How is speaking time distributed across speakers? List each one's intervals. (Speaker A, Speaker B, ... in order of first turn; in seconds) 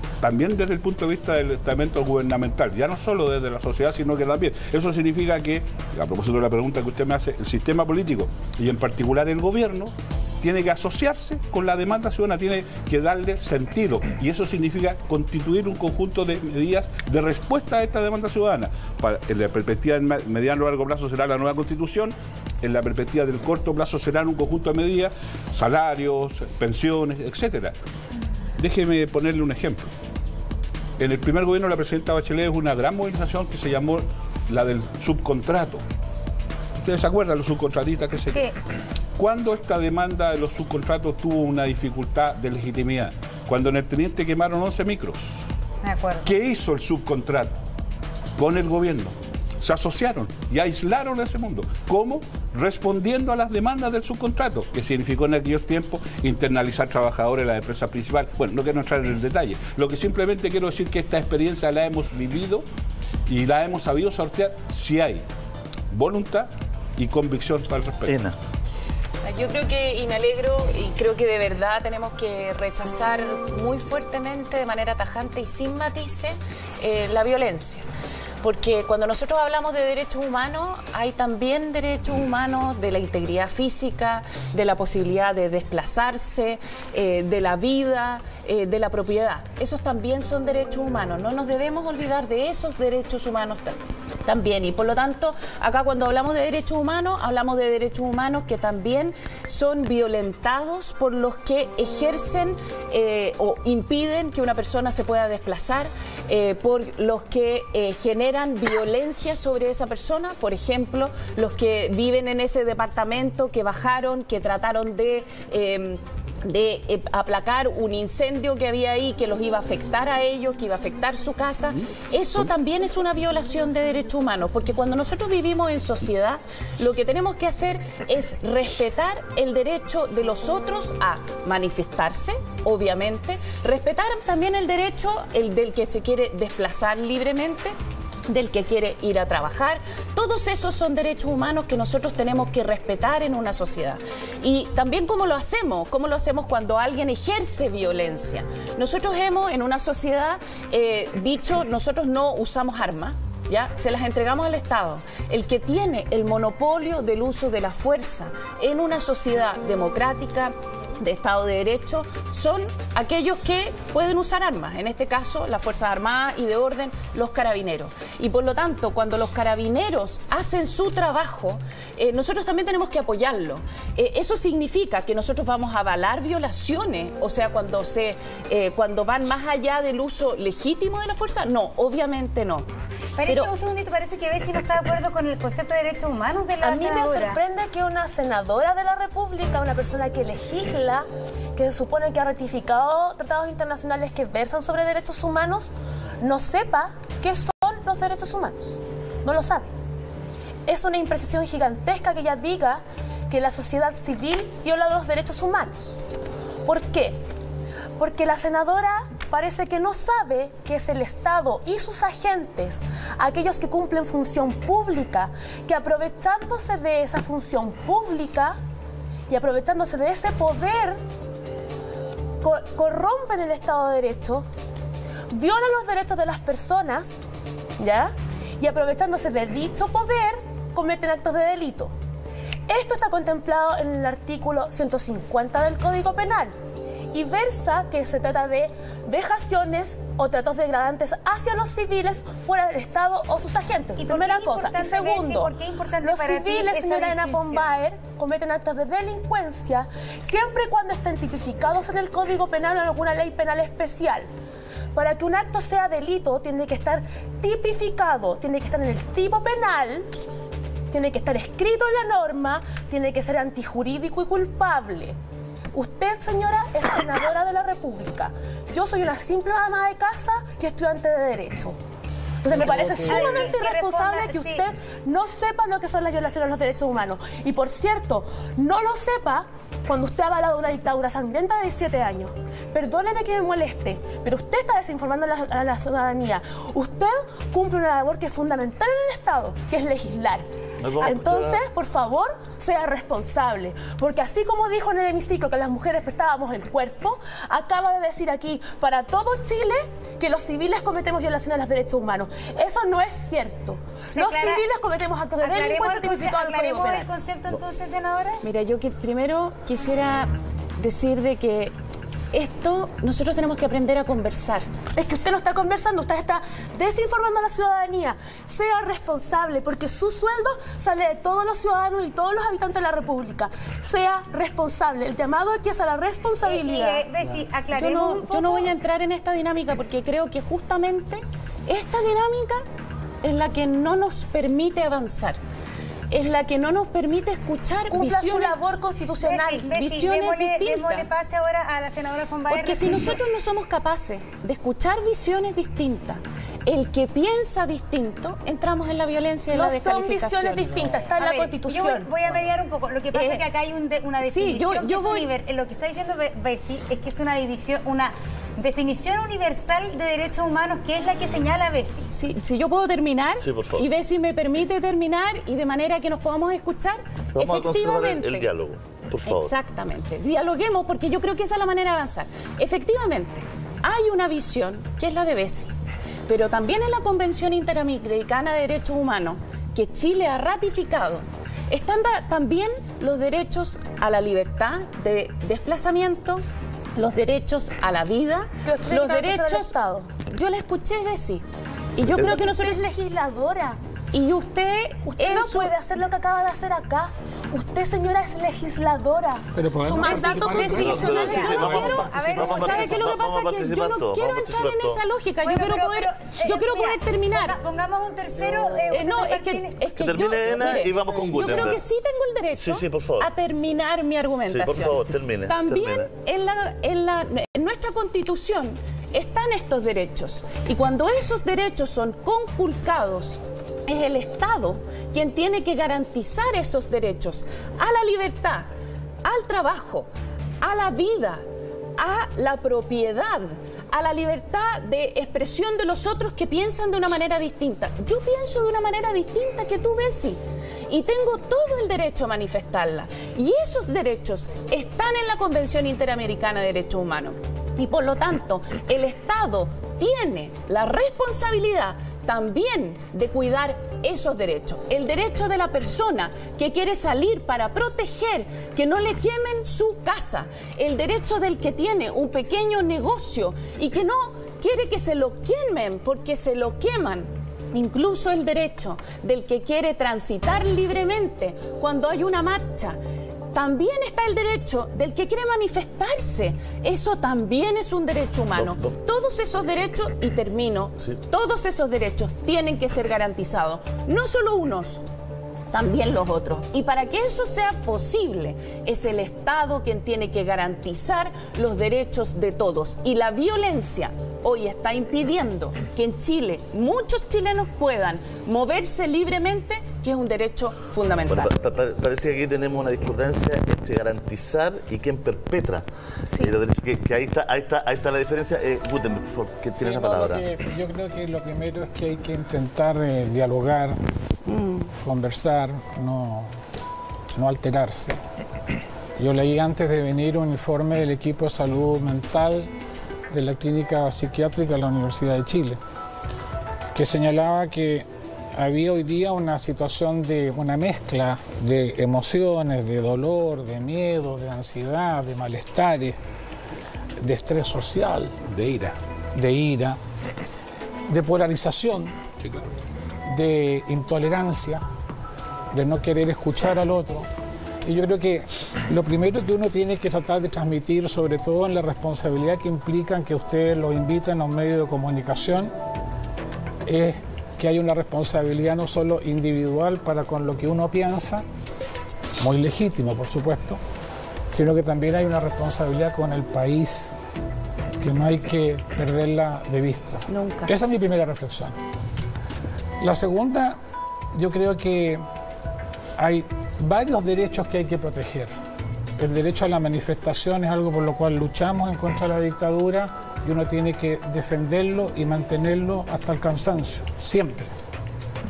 Speaker A: 0.2-27.7, 28.6-29.9, 31.0-35.8, 36.8-38.5, 39.2-45.4, 46.2-47.6, 48.4-62.6, 63.3-65.3, 65.9-68.2, 538.5-539.0, 542.4-542.7
Speaker B: 45.8-46.3, 183.2-187.4, 244.0-247.7, 273.1-274.6, 304.1-304.6, 305.4-308.4, 326.4-328.7, 339.2-343.2, 351.2-362.1, 400.9-403.1, 405.4-409.8
Speaker C: 68.1-68.4, 290.8-291.6, 363.4-363.9, 367.4-369.5, 400.7-405.0, 409.9-411.8, 412.5-413.3, 414.5-416.1, 478.6-479.0, 501.3-510.4
Speaker D: 69.2-77.8, 78.4-137.8, 138.3-182.7, 308.4-311.7, 312.3-314.7, 327.7-332.6, 333.2-335.4, 336.1-338.6, 339.7-341.1, 342.5-350.8, 353.1-353.5, 354.2-355.3, 362.1-368.5, 369.2-375.7, 376.3-389.7, 390.2-391.4, 392.0-392.8, 394.1-395.7, 400.0-407.6, 408.5-428.7, 429.2-430.1, 430.6-431.4, 432.0-473.0, 473.5-485.0, 485.7-501.5, 514.5-514.9, 570.3-570.7
Speaker E: 186.6-199.7, 200.7-206.0, 206.7-207.2, 208.0-218.6, 219.3-221.0, 222.4-224.5, 225.3-227.2, 227.8-231.9, 232.7-236.5, 237.1-254.3, 254.9-260.1, 260.9-265.2, 265.7-271.8, 272.4-290.5, 291.0-307.1, 315.0-327.1, 337.9-339.7, 349.5-352.1, 388.6-390.1, 392.2-393.8, 395.1-402.1
Speaker F: 272.5-273.5, 399.6-402.1, 509.8-514.0, 515.0-516.5, 517.3-518.2, 519.2-522.7, 523.3-525.8, 526.9-536.2, 537.2-538.3, 539.4-540.0, 541.1-542.1, 543.3-544.8, 545.7-547.3, 547.8-555.7, 556.9-561.5, 562.4-563.8, 564.5-567.2, 568.0-571.8, 573.0-573.8, 574.3-575.2, 576.2-578.5, 579.2-587.7